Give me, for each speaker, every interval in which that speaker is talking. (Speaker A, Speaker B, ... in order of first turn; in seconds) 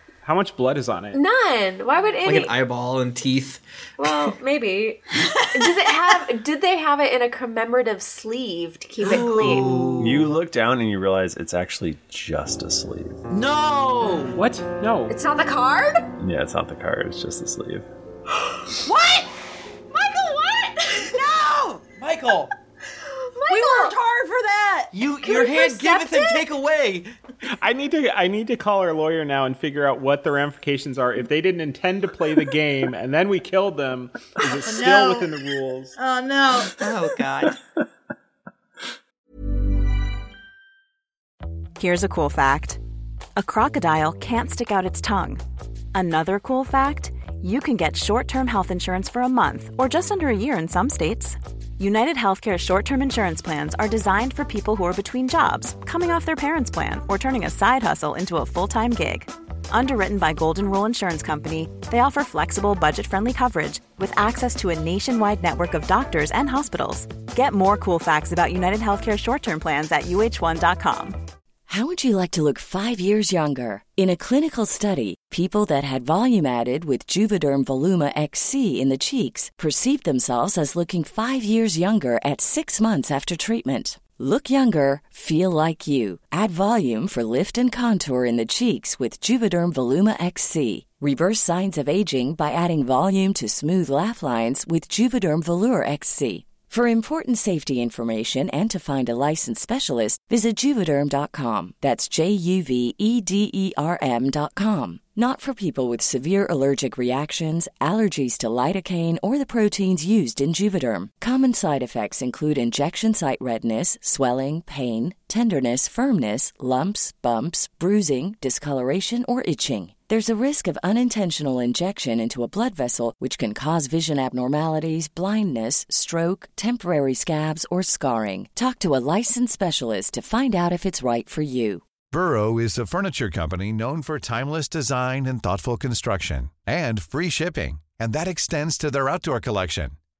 Speaker A: 0.2-1.2, 14.3-15.1, 27.6-36.0
Speaker B: 1.1-2.5, 4.0-9.9, 15.1-16.1, 19.9-21.1, 23.1-23.9, 25.2-26.4
Speaker C: 2.2-4.3, 9.0-10.3, 13.3-14.4, 22.0-22.5, 24.9-27.1, 36.8-37.6
Speaker D: 5.2-5.7, 9.1-10.0, 18.8-19.3, 21.0-22.4, 23.5-24.9, 34.6-35.3, 36.0-36.8
Speaker E: 10.0-13.2, 16.2-17.9
Speaker F: 41.8-42.8, 43.4-45.4, 45.9-71.2
Speaker G: 71.7-131.8
Speaker H: 132.1-140.0